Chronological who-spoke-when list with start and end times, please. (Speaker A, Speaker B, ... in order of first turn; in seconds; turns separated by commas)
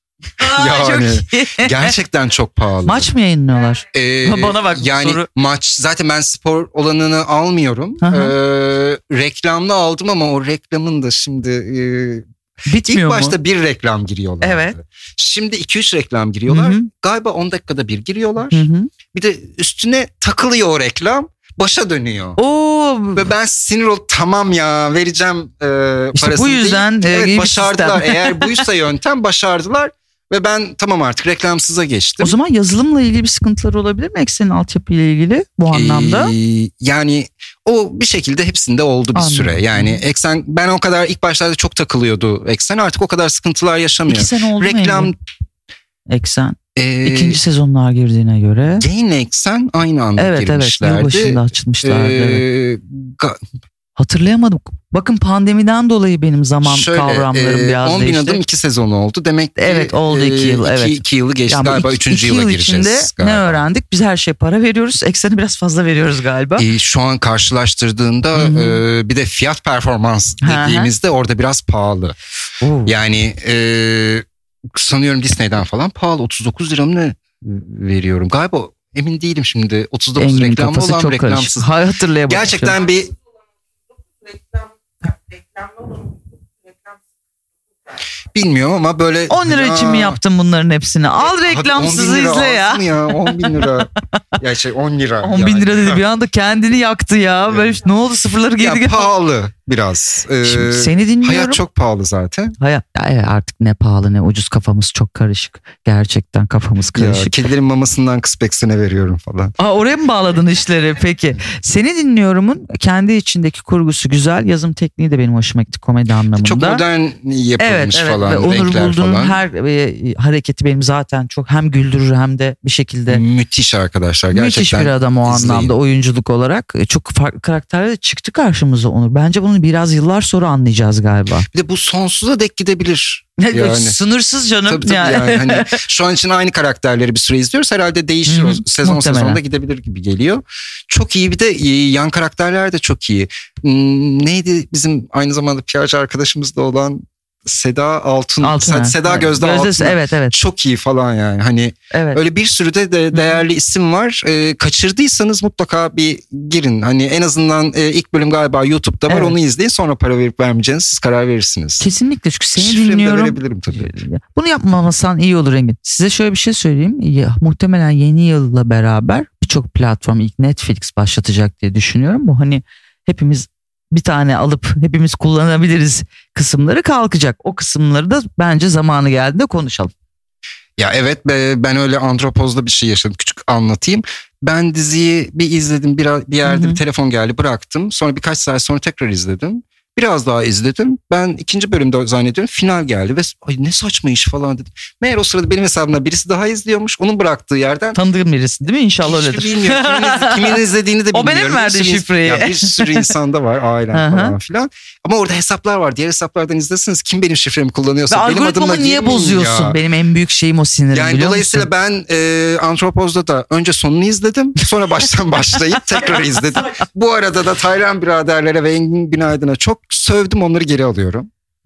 Speaker A: 0.4-1.9, Speaker B: 0.4-3.1, Speaker A: 2.8-5.3, Speaker B: 3.9-12.3, Speaker A: 8.0-8.3, Speaker A: 12.7-13.4, Speaker B: 12.8-22.4, Speaker A: 14.4-14.8, Speaker A: 16.5-16.9, Speaker A: 18.5-18.9, Speaker A: 22.4-23.3, Speaker B: 23.2-32.4, Speaker A: 26.1-28.6, Speaker A: 32.2-36.4, Speaker B: 35.7-45.2, Speaker A: 39.1-40.0, Speaker A: 44.1-45.1, Speaker A: 46.1-48.9, Speaker B: 46.8-47.4, Speaker B: 48.8-53.4, Speaker A: 50.2-52.5, Speaker A: 54.0-58.4, Speaker B: 56.6-63.6, Speaker A: 59.6-66.7, Speaker B: 66.6-72.2, Speaker A: 68.4-68.8, Speaker A: 70.4-70.9, Speaker A: 72.6-72.9, Speaker B: 72.8-81.7, Speaker A: 80.2-82.8, Speaker B: 82.3-83.1, Speaker C: 83.9-87.0, Speaker B: 88.3-90.2, Speaker A: 89.3-93.9, Speaker B: 91.2-96.0, Speaker A: 95.2-99.1, Speaker B: 97.5-97.8, Speaker B: 98.6-102.5, Speaker A: 100.4-101.6, Speaker A: 102.6-107.4, Speaker B: 107.0-109.5, Speaker A: 109.6-116.8, Speaker B: 116.3-119.4, Speaker A: 117.6-123.2, Speaker B: 123.1-125.8, Speaker A: 124.3-131.5, Speaker B: 131.5-134.0, Speaker A: 133.4-135.8, Speaker B: 134.7-161.9, Speaker A: 138.3-139.4, Speaker A: 148.4-150.4, Speaker A: 151.9-152.2, Speaker A: 153.1-153.4, Speaker A: 159.1-159.4, Speaker A: 161.8-179.9, Speaker B: 162.6-163.9, Speaker B: 180.8-198.0, Speaker A: 186.4-186.8, Speaker A: 197.9-203.1, Speaker B: 199.0-209.8, Speaker A: 203.9-204.4, Speaker A: 208.1-211.7, Speaker B: 210.9-221.3